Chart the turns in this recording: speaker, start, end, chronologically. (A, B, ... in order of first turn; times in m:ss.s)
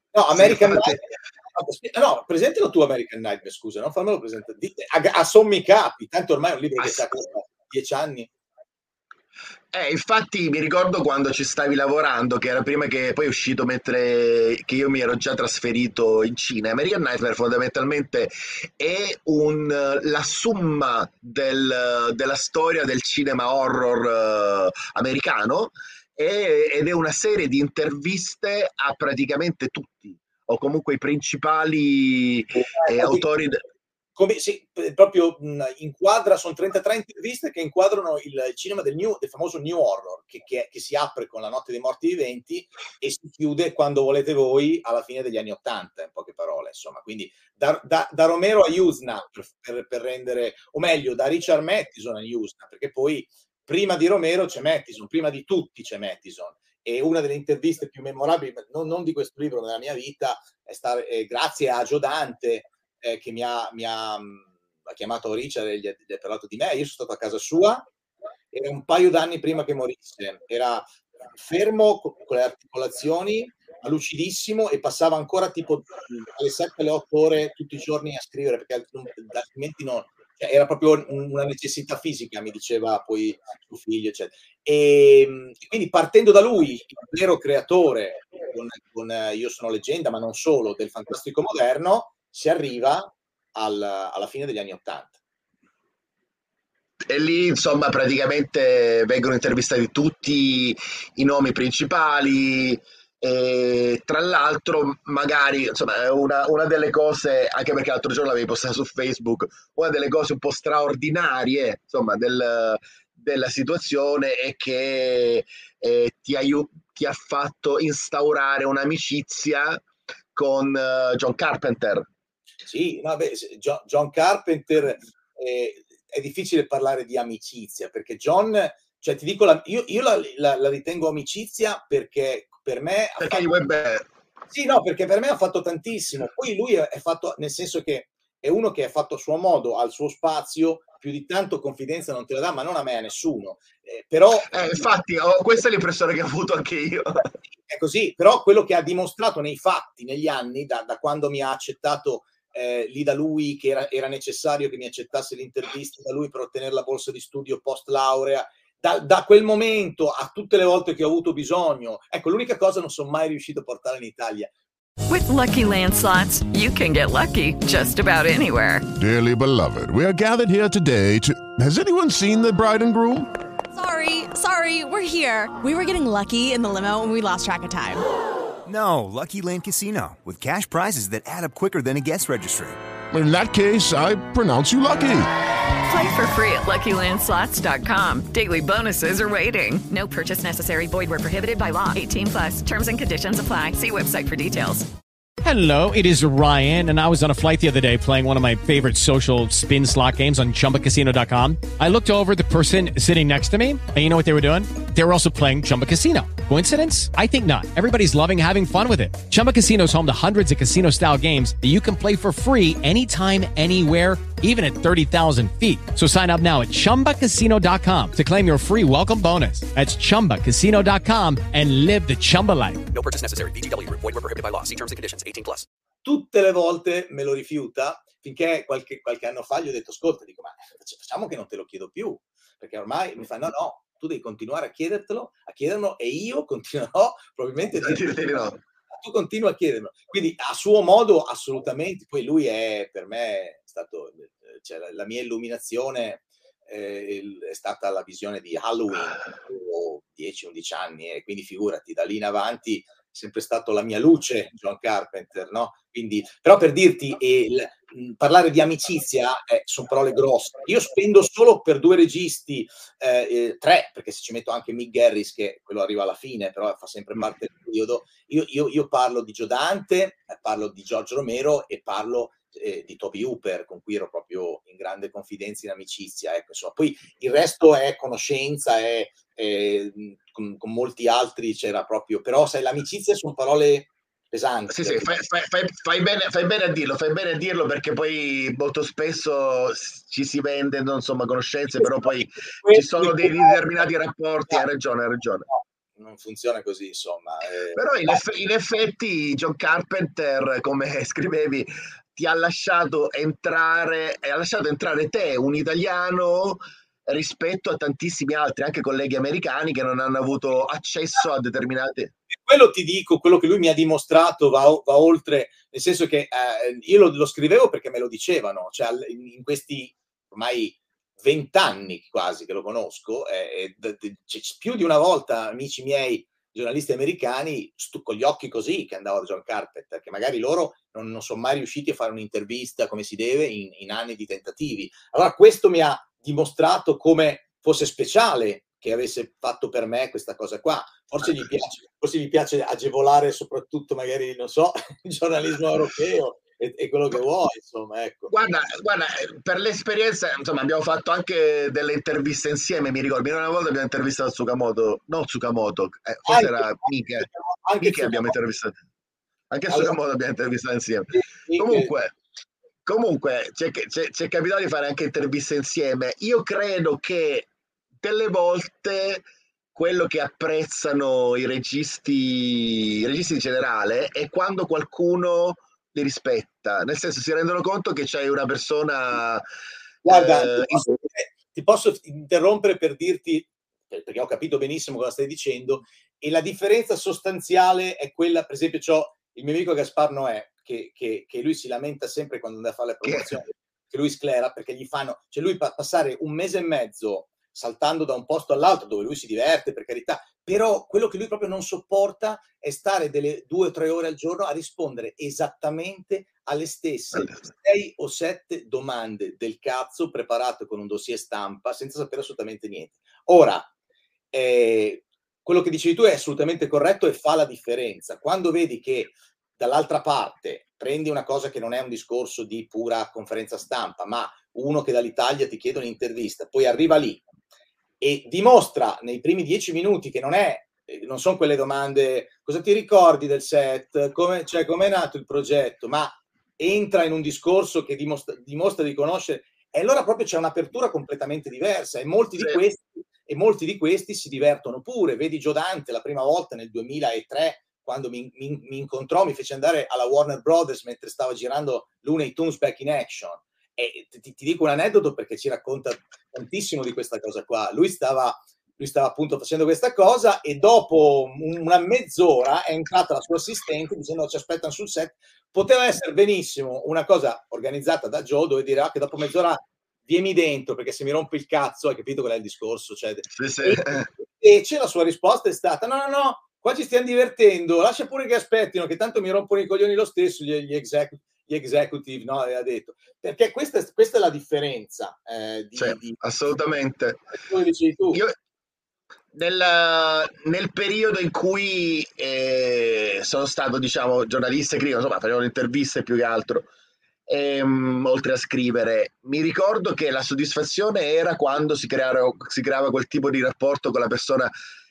0:00.1-0:08.3 A
0:00.4-0:01.0 B
0:06.8-0:07.1 B
0:09.7-0:33.6 B
0:32.7-0:33.2 A
0:34.2-1:07.8 A
1:08.5-1:35.2 A
1:37.1-1:59.8 B
2:00.4-2:02.1 B
2:02.6-2:13.5 A
2:13.2-2:14.1 B
2:14.5-2:24.5 A
2:24.5-2:27.3 B
2:27.7-2:44.5 A
2:45.1-2:48.9 C
2:49.0-2:53.3 D
2:53.7-2:58.0 E
2:58.6-3:02.8 F
3:03.1-3:05.3 D
3:05.8-3:14.9 C
3:15.4-3:42.9 G
3:42.9-3:45.7 H
3:46.0-3:58.4 A
3:57.7-3:58.6 B
3:58.9-4:45.1 A
4:44.7-4:55.5 B
4:51.8-4:53.6 A
4:55.5-4:58.1 A
4:57.8-5:12.1 B
5:12.3-5:48.3 A
5:48.3-5:57.3 B
5:56.3-5:58.4 A
5:57.8-5:58.7 B
5:59.5-6:02.1 B
5:59.7-6:00.0 A
6:01.1-6:01.9 A
6:02.9-6:07.5 B
6:08.0-6:09.2 B
6:09.8-6:19.4 B
6:20.0-6:21.0 B
6:20.0-6:53.7 A
6:33.0-6:33.4 B
6:54.3-7:07.2 A
7:08.0-8:06.2 A
7:22.4-7:22.6 B
7:53.3-7:54.1 B
8:05.8-8:07.3 B
8:07.3-8:08.2 A
8:09.3-8:16.7 B
8:17.3-8:24.5 B